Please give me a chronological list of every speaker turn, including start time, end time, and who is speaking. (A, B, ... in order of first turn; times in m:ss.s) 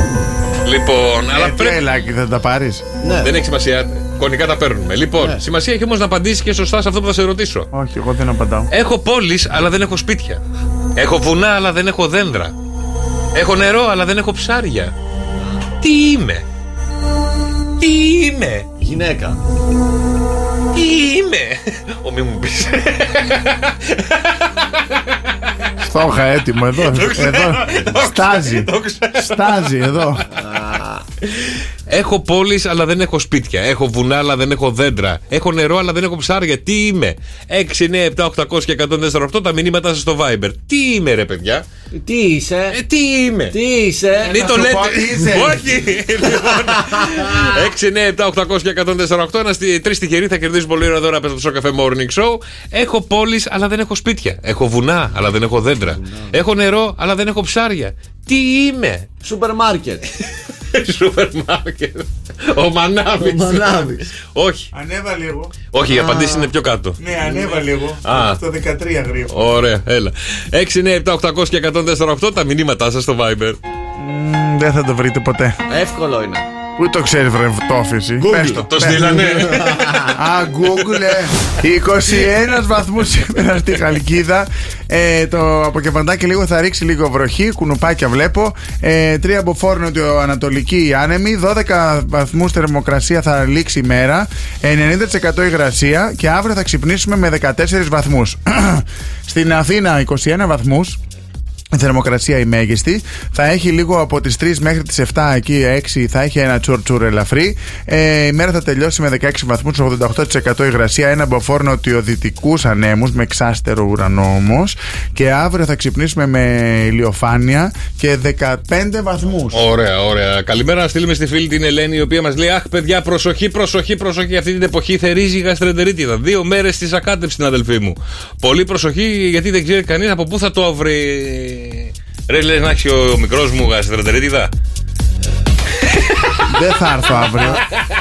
0:00.6-0:01.8 A
0:01.3-0:02.8 B
0:03.0-0:03.3 C
0:03.2-0:07.7 A
0:07.7-0:08.7 B
0:08.7-0:10.4 A
0:11.0-0:12.5 A
0:13.3-0:14.9 A
0:15.8-0:16.4 A
0:17.8-0:18.6 A
0:18.8-0:19.4 C
0:20.7-0:23.5 A
0:25.8-0:30.2 B
0:26.9-0:30.2 A
0:30.3-0:31.0 C
0:31.9-0:41.6 A
0:41.9-0:42.8 C
0:42.7-0:43.6 A
0:43.5-0:44.4 C
0:44.2-0:45.8 B
0:44.2-0:59.0 A
0:46.4-0:47.6 C
0:56.0-0:56.4 C
0:59.2-1:00.0 C
1:00.7-1:04.7 A
1:03.2-1:04.0 C
1:04.7-1:05.5 B
1:05.7-1:07.0 A
1:05.9-1:06.5 C
1:07.0-1:09.4 B
1:08.0-1:08.4 A
1:09.3-1:13.6 A
1:14.0-1:15.6 B
1:15.7-1:16.4 C
1:16.8-1:19.2 B
1:18.2-1:20.2 C
1:18.4-1:19.9 A
1:20.1-1:41.0 B
1:41.7-1:59.6 B
1:59.5-2:14.5 A
2:16.5-2:17.6 B
2:17.3-2:17.6 A